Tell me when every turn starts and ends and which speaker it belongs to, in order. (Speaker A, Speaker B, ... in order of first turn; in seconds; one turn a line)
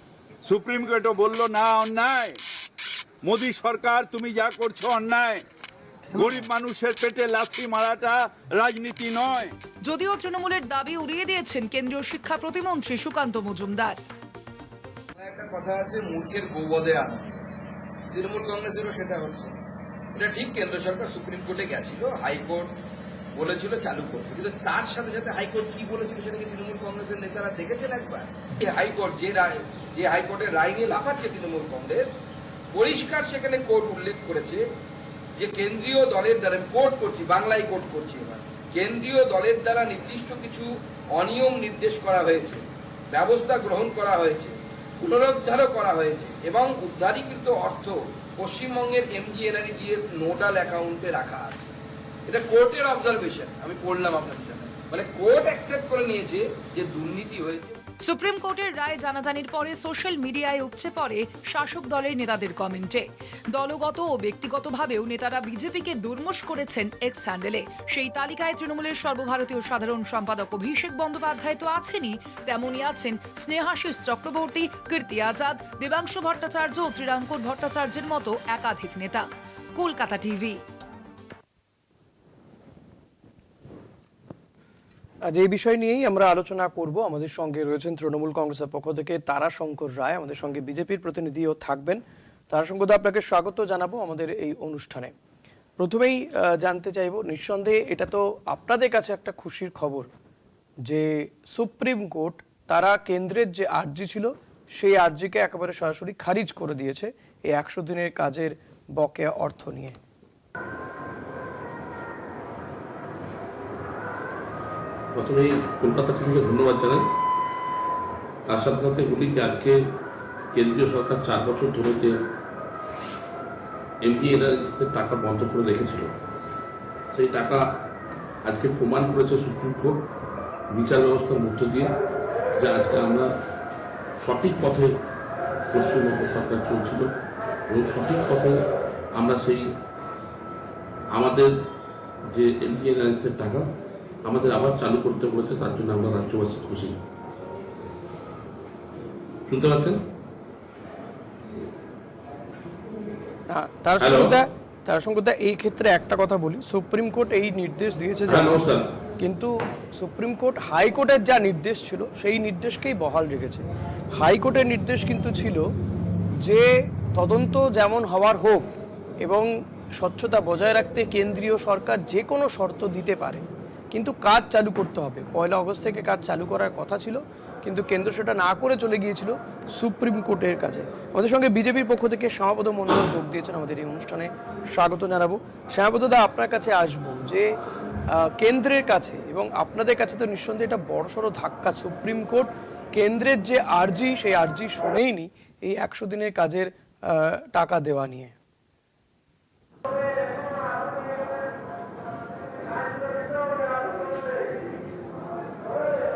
Speaker A: 0.5-2.4
Speaker A: 3.2-5.4
Speaker A: 6.1-9.5
Speaker B: 9.8-14.0
Speaker C: 15.2-17.5
Speaker C: 18.1-19.6
Speaker C: 20.1-22.7
Speaker C: 23.4-32.1
Speaker C: 32.7-34.6
Speaker C: 35.4-51.8
Speaker C: 52.3-57.8
Speaker B: 58.0-79.2
Speaker B: 79.8-80.6
Speaker D: 85.3-95.1
Speaker D: 95.8-100.1
Speaker D: 100.9-110.0
Speaker E: 115.1-117.1
Speaker E: 118.5-119.8
Speaker E: 120.5-122.2
Speaker E: 124.0-126.1
Speaker E: 127.1-127.7
Speaker E: 128.4-130.0
Speaker E: 130.7-131.9
Speaker E: 132.6-133.3
Speaker E: 134.2-134.9
Speaker E: 135.7-137.1
Speaker E: 137.7-138.6
Speaker E: 139.2-139.7
Speaker E: 141.1-141.5
Speaker E: 142.3-143.7
Speaker E: 144.2-147.0
Speaker E: 149.5-150.0
Speaker D: 153.5-158.6
Speaker E: 154.0-154.3
Speaker E: 158.3-158.8
Speaker D: 159.2-163.6
Speaker D: 164.2-165.7
Speaker D: 166.4-168.7
Speaker D: 169.2-187.5
Speaker D: 188.1-198.3